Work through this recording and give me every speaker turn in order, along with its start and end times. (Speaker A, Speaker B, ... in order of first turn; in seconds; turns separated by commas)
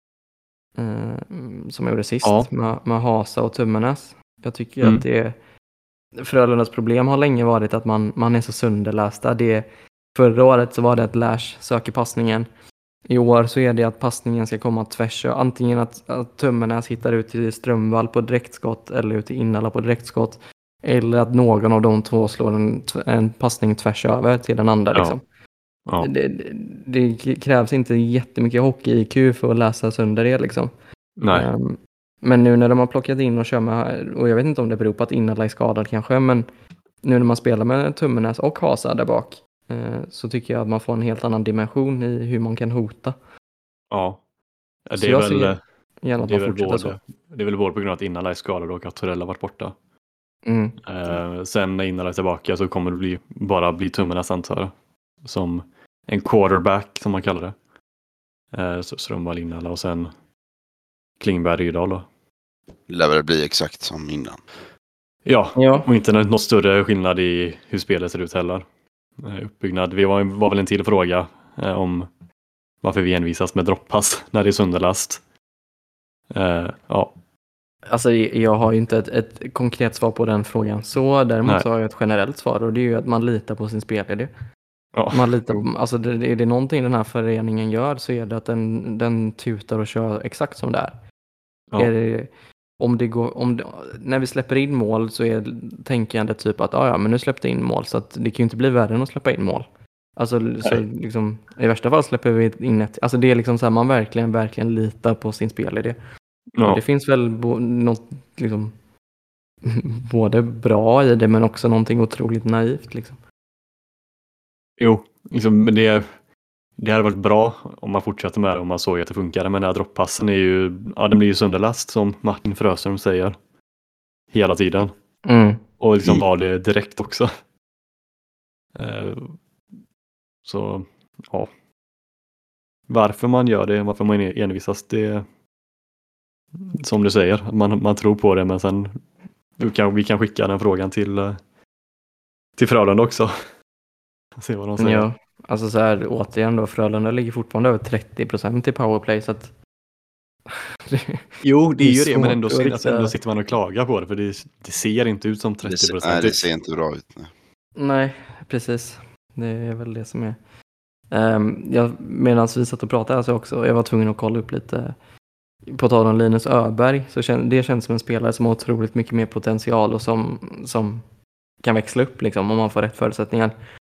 Speaker A: 0.8-5.3, Speaker B: 2.2-2.5, Speaker A: 6.2-12.5, Speaker A: 13.1-25.2, Speaker A: 26.0-30.7, Speaker B: 31.2-31.5, Speaker A: 31.3-36.5, Speaker A: 37.0-43.1, Speaker B: 43.9-44.2, Speaker B: 44.9-45.6, Speaker A: 44.9-47.0, Speaker B: 46.3-49.7, Speaker A: 50.5-50.8, Speaker B: 50.9-57.5, Speaker B: 58.5-60.1, Speaker B: 61.2-62.0, Speaker C: 62.9-64.4, Speaker B: 65.2-68.6, Speaker A: 65.5-65.9, Speaker B: 69.2-72.1, Speaker B: 72.8-75.2, Speaker B: 76.3-77.1, Speaker A: 77.9-84.3, Speaker B: 84.9-85.6, Speaker A: 85.1-91.0, Speaker A: 91.8-99.6, Speaker A: 100.2-106.0, Speaker B: 106.5-106.8, Speaker A: 106.6-108.7, Speaker A: 109.6-113.2, Speaker B: 114.8-116.0, Speaker B: 116.8-123.4, Speaker B: 124.3-124.9, Speaker A: 125.2-125.6, Speaker B: 125.8-127.3, Speaker B: 128.8-129.4, Speaker B: 130.4-131.5, Speaker B: 132.9-135.2, Speaker B: 136.7-139.0, Speaker B: 139.6-141.4, Speaker B: 142.6-143.4, Speaker B: 144.4-145.1, Speaker A: 144.8-149.5, Speaker A: 150.9-151.2, Speaker B: 151.4-156.4, Speaker A: 151.8-153.1, Speaker C: 155.6-157.3, Speaker A: 157.8-160.4, Speaker A: 161.1-164.9, Speaker A: 165.7-171.0, Speaker A: 171.6-173.5